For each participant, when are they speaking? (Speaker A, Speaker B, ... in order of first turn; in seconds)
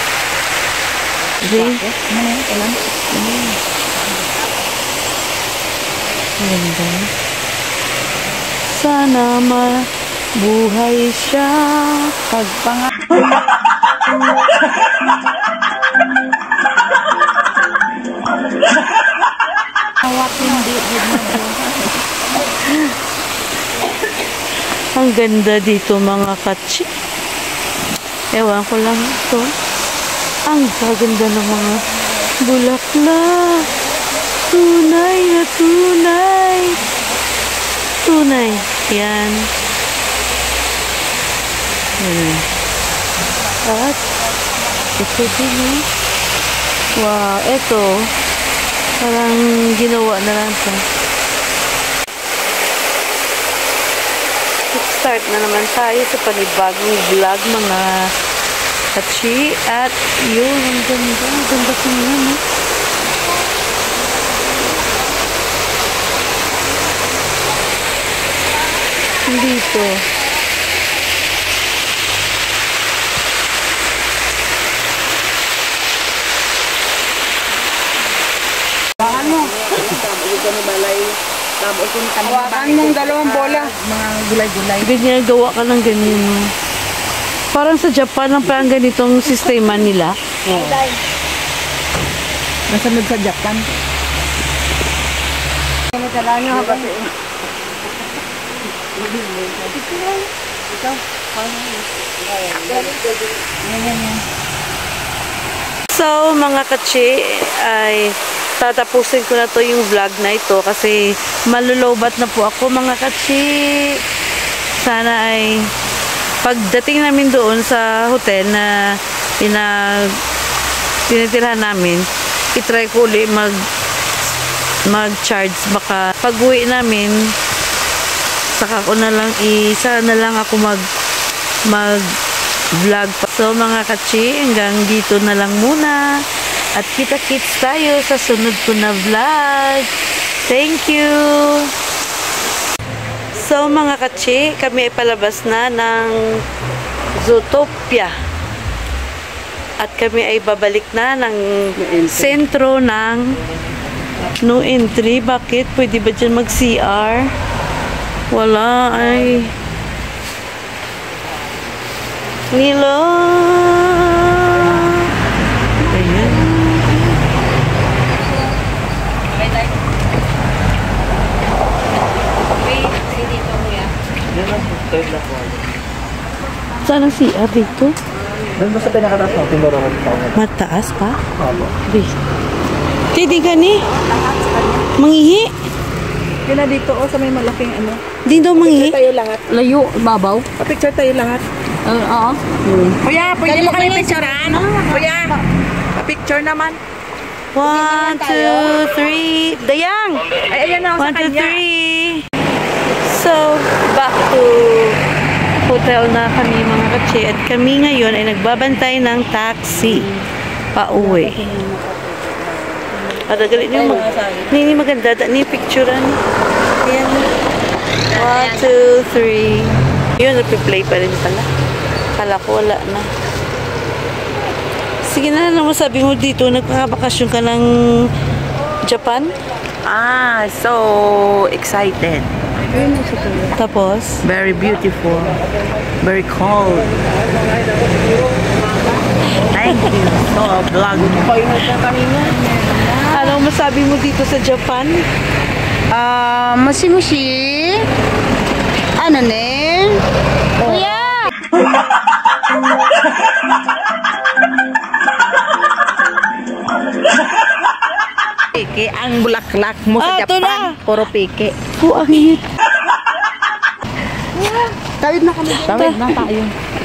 Speaker A: 1.4-1.8, 3.1-3.6, 6.4-7.1, 8.7-9.8, 10.4-12.1, 22.5-22.9, 24.9-26.9, 28.3-29.5, 30.5-31.8, 32.4-33.7, 34.5-36.8, 38.0-39.5, 42.0-42.5, 43.6-44.0, 44.9-45.8, 47.0-48.1, 49.0-50.8, 54.7-58.1, 58.9-62.4, 69.2-70.0, 84.8-86.5, 87.5-90.1, 105.9-114.0, 114.8-115.5, 116.4-118.7, 119.4-120.1, 121.1-122.0, 122.5-123.6, 124.9-127.2, 128.6-130.8, 131.7-132.1, 132.8-136.0, 136.8-139.9, 140.4-141.7, 143.3-146.2, 147.1-148.1, 149.8-153.3, 154.4-157.3, 158.3-159.5, 162.5-165.1, 165.8-167.0, 176.8-177.9, 180.3-181.2, 181.8-182.1, 183.1-183.8, 184.9-185.5, 188.2-189.0, 197.5-200.4, 200.9-202.2, 202.9-205.0, 205.6-210.1, 210.7-211.4, 213.2-216.2, 216.8-217.3, 218.1-221.5, 222.2-223.1, 225.0-228.1, 228.8-229.3, 233.5-234.2, 241.3-242.3, 243.1-245.0, 260.0-260.8, 261.8-262.4, 265.5-266.2
Speaker B: 1.4-2.6, 12.3-12.8, 20.3-21.5, 79.0-79.7, 82.2-84.9, 90.5-90.8, 92.7-93.7, 96.5-96.9, 151.8-152.2, 183.9-184.8, 186.5-188.0, 188.7-189.6, 190.6-191.4, 193.3-195.4, 196.1-196.8, 200.4-201.6, 229.8-233.3, 234.2-235.4, 236.0-236.9, 239.5-243.3, 245.9-247.8, 249.0-250.0, 250.6-251.1, 258.5-261.5, 264.4-266.5
Speaker C: 20.4-21.0, 79.0-81.2, 81.7-83.7, 90.5-90.8, 96.1-96.9, 99.0-100.0, 101.3-103.0, 173.2-173.8, 178.6-180.1, 193.0-195.3
Speaker D: 80.5-80.9, 81.6-83.6, 96.0-96.8, 173.0-173.8, 189.5-190.4, 191.8-192.8, 193.8-194.1, 213.9-214.2